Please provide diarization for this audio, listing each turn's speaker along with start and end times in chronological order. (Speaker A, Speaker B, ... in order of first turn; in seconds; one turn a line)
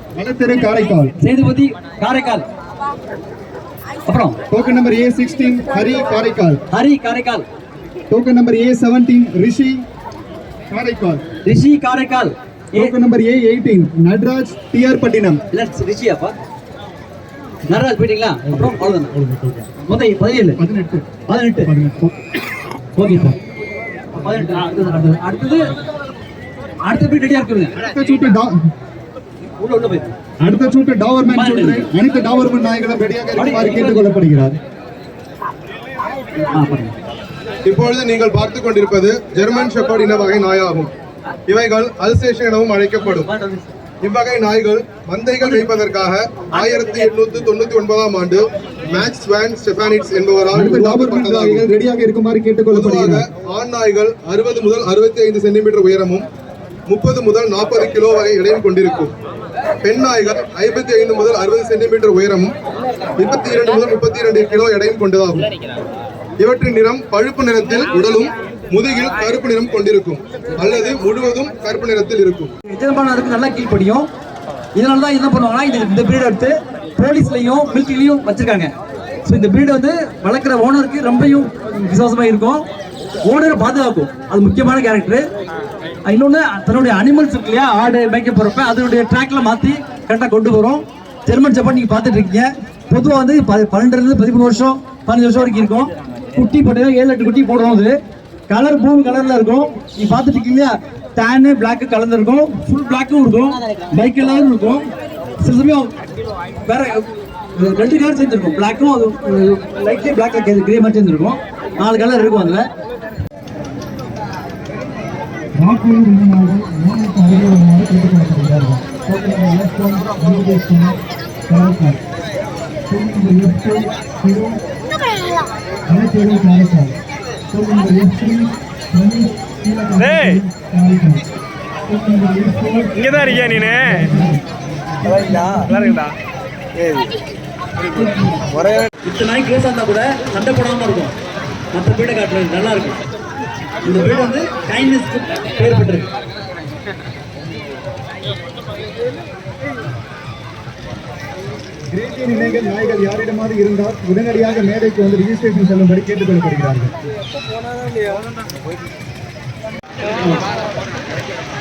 Speaker A: 0.2-1.1
Speaker B: 1.2-2.4
Speaker B: 4.1-4.4
Speaker A: 4.5-6.6
Speaker B: 6.7-7.4
Speaker A: 8.1-9.8
Speaker A: 10.7-11.2
Speaker B: 11.4-12.9
Speaker A: 12.7-15.4
Speaker B: 15.5-16.3
Speaker B: 17.7-19.1
Speaker A: 19.1-19.6
Speaker B: 19.8-20.6
Speaker A: 20.6-21.0
Speaker B: 21.3-21.7
Speaker A: 21.6-22.1
Speaker B: 22.9-23.4
Speaker B: 24.1-25.6
Speaker B: 26.8-27.8
Speaker A: 27.8-28.5
Speaker B: 29.6-30.1
Speaker A: 30.4-34.6
Speaker B: 31.3-31.9
Speaker B: 33.4-34.1
Speaker B: 36.4-36.9
Speaker C: 37.6-40.9
Speaker C: 41.5-43.3
Speaker B: 43.0-43.7
Speaker C: 44.0-51.6
Speaker B: 46.5-47.1
Speaker A: 50.5-53.2
Speaker C: 52.7-56.3
Speaker C: 56.9-59.1
Speaker C: 59.8-62.5
Speaker C: 63.2-65.5
Speaker C: 66.4-72.5
Speaker B: 72.7-74.1
Speaker B: 74.7-78.7
Speaker B: 79.2-82.7
Speaker B: 83.2-85.2
Speaker B: 86.0-97.9
Speaker B: 98.5-104.9
Speaker B: 105.4-105.9
Speaker B: 106.7-112.6
Speaker A: 115.6-121.0
Speaker A: 121.5-122.0
Speaker A: 122.9-124.6
Speaker A: 125.9-126.9
Speaker A: 127.5-131.2
Speaker D: 130.0-130.3
Speaker A: 131.9-134.4
Speaker D: 132.9-134.1
Speaker A: 135.1-135.5
Speaker D: 135.1-136.1
Speaker B: 138.0-138.4
Speaker B: 139.0-141.1
Speaker B: 141.7-143.0
Speaker B: 143.8-146.1
Speaker A: 151.9-156.9